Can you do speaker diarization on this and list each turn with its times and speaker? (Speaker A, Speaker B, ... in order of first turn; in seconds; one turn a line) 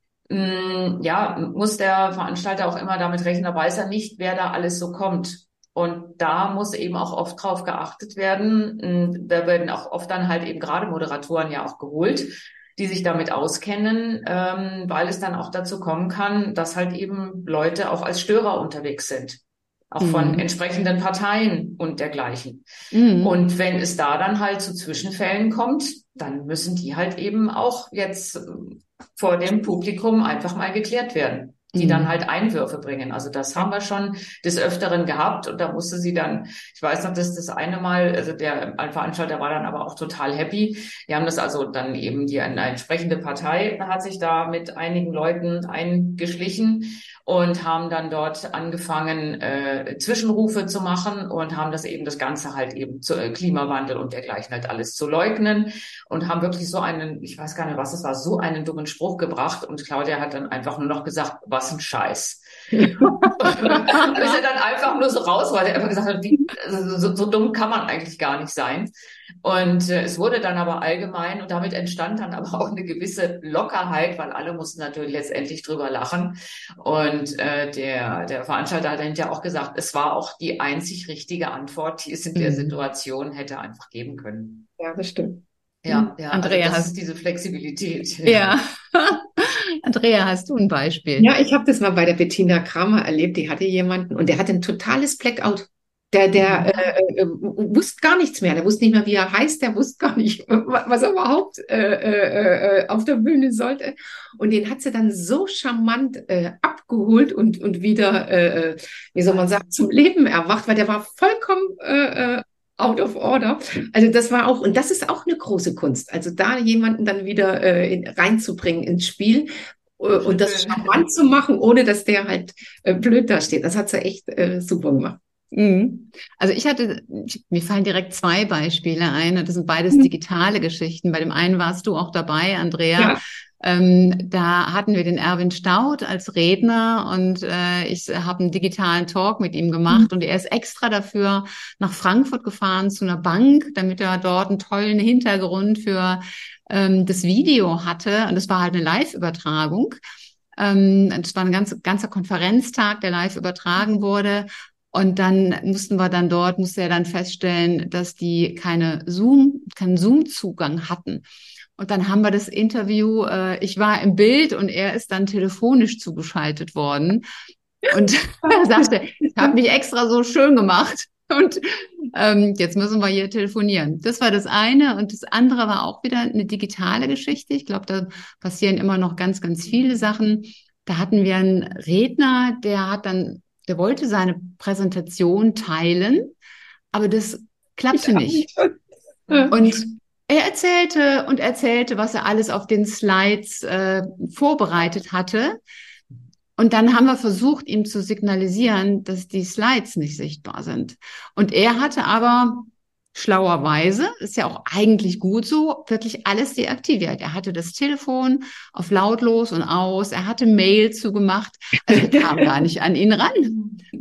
Speaker A: 0.3-22.6
Speaker B: 20.0-20.4
Speaker B: 22.9-23.4
Speaker A: 23.2-68.9
Speaker B: 31.7-32.1
Speaker B: 63.9-64.4
Speaker A: 69.4-84.7
Speaker B: 82.3-82.8
Speaker C: 84.8-85.4
Speaker A: 85.8-88.6
Speaker B: 85.9-86.9
Speaker B: 88.2-91.3
Speaker C: 91.2-125.2
Speaker B: 96.4-96.9
Speaker A: 120.3-121.0
Speaker B: 125.5-150.0
Speaker B: 150.6-161.2
Speaker B: 161.8-167.2
Speaker B: 167.8-186.3
Speaker B: 186.9-188.5
Speaker C: 188.2-188.7
Speaker B: 189.5-195.6
Speaker B: 196.6-213.6